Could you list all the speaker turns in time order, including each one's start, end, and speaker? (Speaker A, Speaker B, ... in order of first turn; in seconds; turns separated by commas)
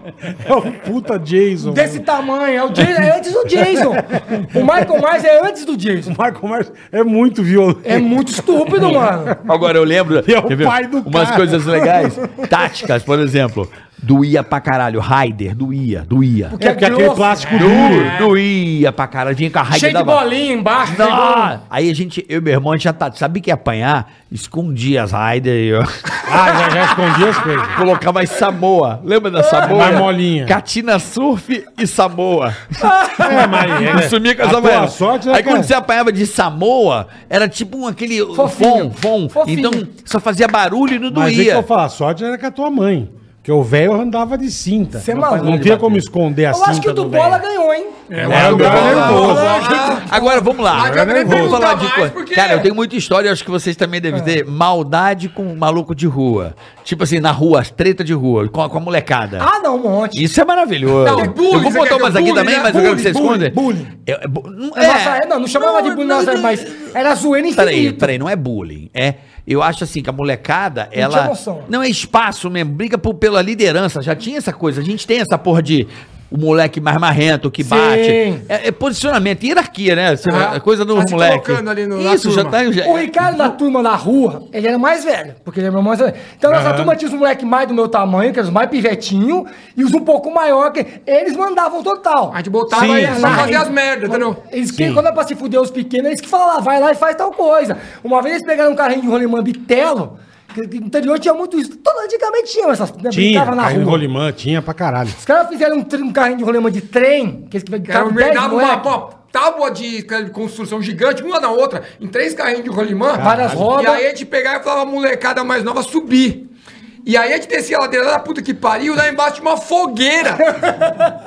Speaker A: 0.2-2.0, Speaker B: 1.6-6.1, Speaker A: 3.5-5.0, Speaker A: 6.0-9.5, Speaker B: 7.8-9.4, Speaker C: 9.4-16.5, Speaker A: 10.2-11.9, Speaker B: 16.5-17.9, Speaker A: 16.6-18.2, Speaker C: 17.6-20.2, Speaker D: 17.7-18.3, Speaker B: 19.7-21.5, Speaker C: 20.8-26.7, Speaker A: 26.2-27.8, Speaker C: 27.6-41.7, Speaker B: 29.4-30.0, Speaker A: 29.6-30.6, Speaker B: 32.8-34.0, Speaker A: 33.2-35.7, Speaker B: 38.3-39.9, Speaker A: 41.1-47.4, Speaker B: 45.0-45.8, Speaker C: 45.1-46.0, Speaker B: 46.5-50.2, Speaker D: 48.1-52.7, Speaker C: 48.2-59.5, Speaker A: 48.2-49.7, Speaker A: 50.7-51.7, Speaker B: 59.4-60.2, Speaker C: 60.1-66.9, Speaker D: 61.0-62.9, Speaker B: 62.6-63.9, Speaker B: 64.8-68.1, Speaker C: 67.5-83.5, Speaker B: 71.0-71.7, Speaker B: 77.6-78.5, Speaker D: 80.2-82.6, Speaker B: 82.8-104.0, Speaker A: 86.5-86.9, Speaker D: 92.3-94.4, Speaker A: 92.7-93.6, Speaker A: 94.7-95.0, Speaker A: 103.1-105.2, Speaker B: 105.2-108.9, Speaker D: 107.9-116.5, Speaker A: 113.2-113.7, Speaker B: 113.2-114.0, Speaker D: 117.0-120.6, Speaker B: 120.6-121.1